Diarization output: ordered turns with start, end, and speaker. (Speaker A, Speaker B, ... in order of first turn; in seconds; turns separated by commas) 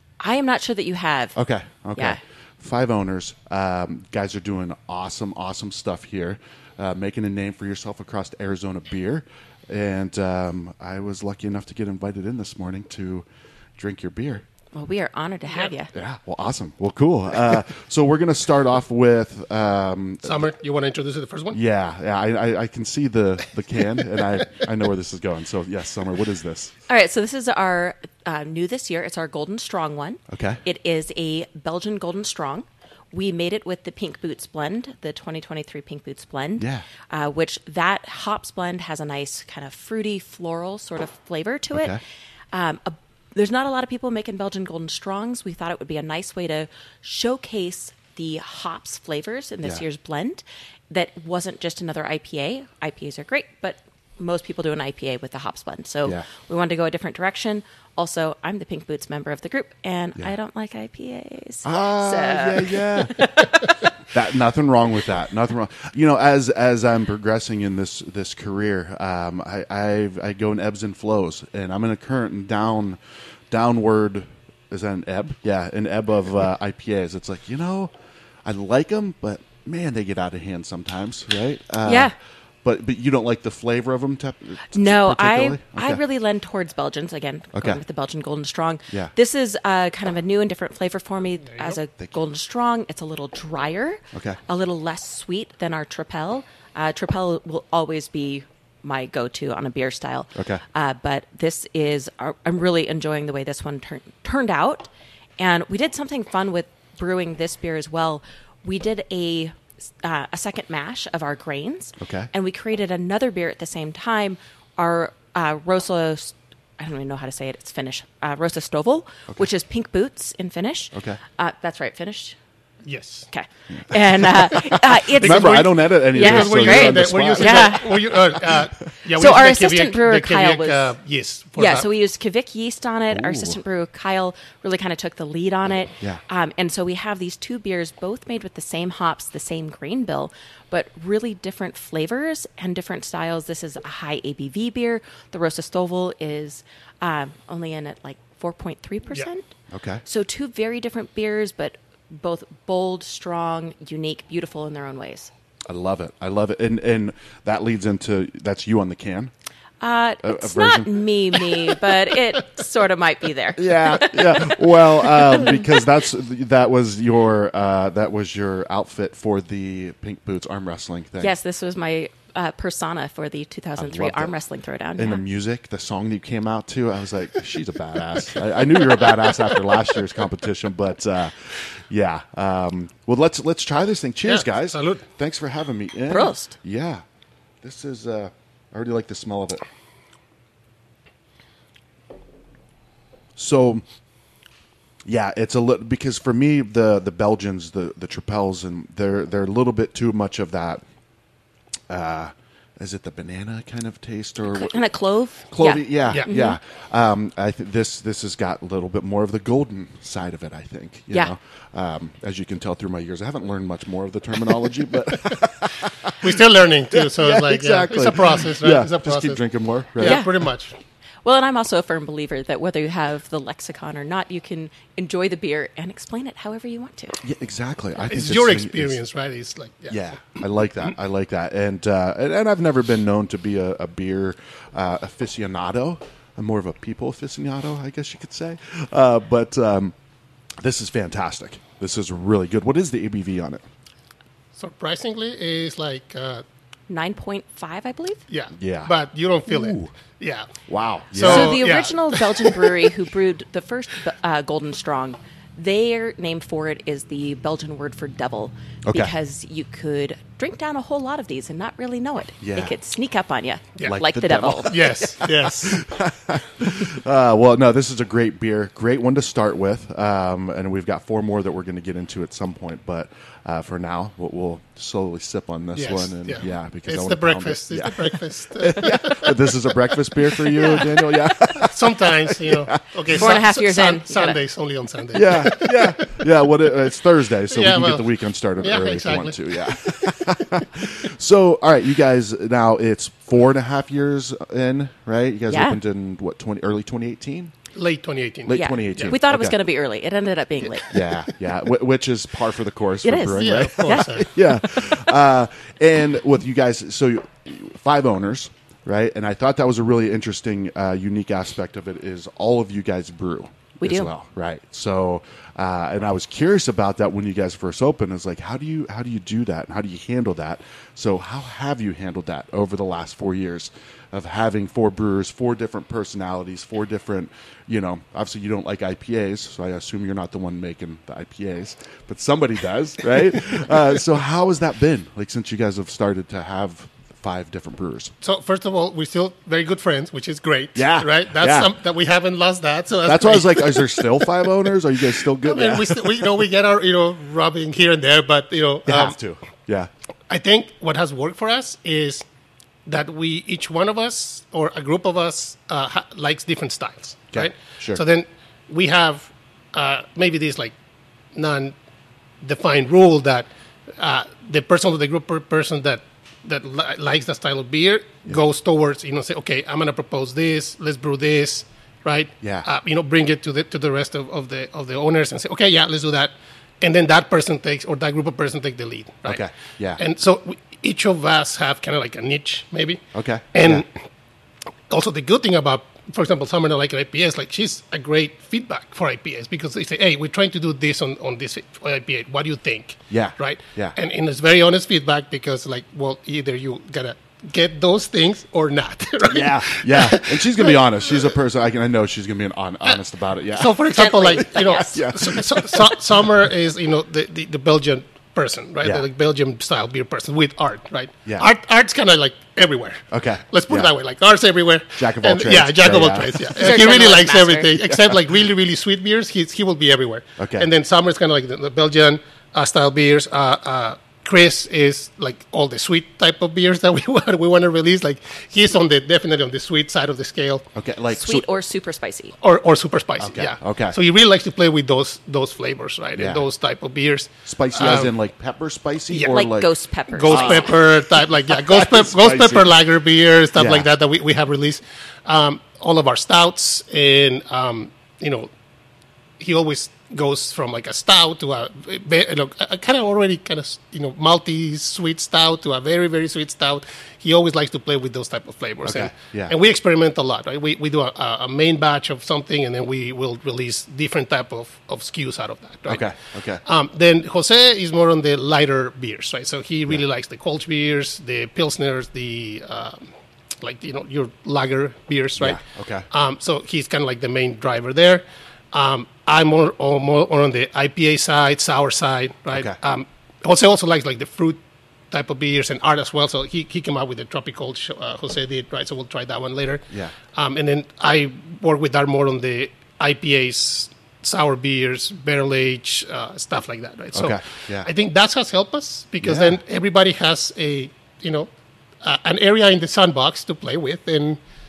Speaker A: 0.2-1.4, Speaker B: 1.4-14.4, Speaker A: 14.7-15.9, Speaker B: 15.9-20.5, Speaker C: 20.2-21.6, Speaker B: 21.5-26.7, Speaker A: 26.9-42.0, Speaker B: 30.3-30.6, Speaker B: 36.6-36.9, Speaker B: 41.7-42.0, Speaker A: 42.5-63.9, Speaker B: 61.6-63.5, Speaker B: 64.1-73.0, Speaker B: 73.5-77.9, Speaker B: 78.5-82.1, Speaker A: 81.8-82.1, Speaker B: 82.6-86.0, Speaker A: 84.7-122.4, Speaker B: 87.5-87.8, Speaker C: 91.5-91.8, Speaker B: 94.1-94.4, Speaker B: 100.3-100.6, Speaker B: 112.0-112.3, Speaker B: 120.9-121.2, Speaker C: 122.8-123.3, Speaker A: 123.3-128.2, Speaker B: 123.7-128.7, Speaker C: 125.3-125.6, Speaker C: 126.1-131.9, Speaker A: 129.1-130.9, Speaker A: 131.6-149.5, Speaker B: 133.1-133.6, Speaker B: 149.7-150.0, Speaker A: 150.1-155.3, Speaker B: 155.7-159.3, Speaker A: 159.8-164.5, Speaker B: 160.2-161.0, Speaker B: 163.6-171.3, Speaker A: 171.2-175.2, Speaker B: 173.8-174.4, Speaker B: 175.0-187.0, Speaker C: 184.2-185.0, Speaker A: 186.1-186.6, Speaker B: 187.6-189.6, Speaker B: 193.4-193.8, Speaker B: 195.1-200.8, Speaker B: 201.9-204.8, Speaker A: 204.5-206.6, Speaker B: 205.5-220.2, Speaker C: 216.2-219.4, Speaker C: 220.0-220.7, Speaker A: 220.0-220.3, Speaker A: 221.2-227.2, Speaker B: 227.2-229.0, Speaker C: 228.0-230.0, Speaker B: 229.9-239.9, Speaker B: 240.6-243.6, Speaker C: 244.6-246.4, Speaker A: 246.9-248.2, Speaker C: 248.3-250.5, Speaker B: 248.6-248.9, Speaker B: 249.5-249.9, Speaker B: 250.7-251.6, Speaker C: 251.1-252.7, Speaker A: 251.2-264.8, Speaker B: 258.9-259.1, Speaker B: 262.4-262.7, Speaker B: 263.8-283.2, Speaker C: 264.6-265.8, Speaker C: 275.8-281.0, Speaker C: 281.5-286.3, Speaker A: 283.1-284.4, Speaker B: 285.1-297.5, Speaker C: 287.5-288.1, Speaker C: 288.6-290.2, Speaker A: 295.5-295.8, Speaker C: 297.8-299.1, Speaker B: 298.5-299.6, Speaker A: 298.5-300.9, Speaker B: 300.9-338.1, Speaker A: 303.0-305.1, Speaker C: 303.4-304.4, Speaker A: 313.8-314.1, Speaker C: 338.2-344.3, Speaker B: 340.8-341.7, Speaker B: 343.1-346.3, Speaker C: 345.4-349.2, Speaker B: 348.9-349.9, Speaker C: 350.3-352.2, Speaker C: 352.9-360.7, Speaker B: 357.3-358.0, Speaker C: 361.4-361.8, Speaker C: 362.4-379.5, Speaker B: 372.4-372.7, Speaker B: 379.3-380.0, Speaker C: 380.0-383.9, Speaker B: 383.1-383.9, Speaker C: 384.9-400.8, Speaker B: 393.1-394.0, Speaker B: 399.2-406.3, Speaker C: 403.5-430.7, Speaker A: 403.9-404.6, Speaker B: 413.1-413.9, Speaker B: 415.0-416.6, Speaker A: 416.5-417.7, Speaker B: 417.8-418.2, Speaker B: 420.4-420.7, Speaker B: 430.7-431.5, Speaker A: 431.1-432.4, Speaker C: 432.4-438.1, Speaker B: 433.2-434.0, Speaker B: 436.2-436.5, Speaker B: 437.5-439.7, Speaker A: 439.1-440.8, Speaker C: 440.2-448.5, Speaker B: 440.2-440.8, Speaker B: 441.5-442.8, Speaker B: 443.6-443.9, Speaker C: 449.4-466.1, Speaker B: 458.8-459.5, Speaker B: 465.9-466.6, Speaker C: 466.6-473.1, Speaker C: 473.6-475.6, Speaker B: 475.4-476.1, Speaker C: 476.1-484.6, Speaker B: 482.5-482.8, Speaker C: 485.1-501.5, Speaker B: 497.1-497.9, Speaker B: 499.2-499.6, Speaker C: 502.0-504.4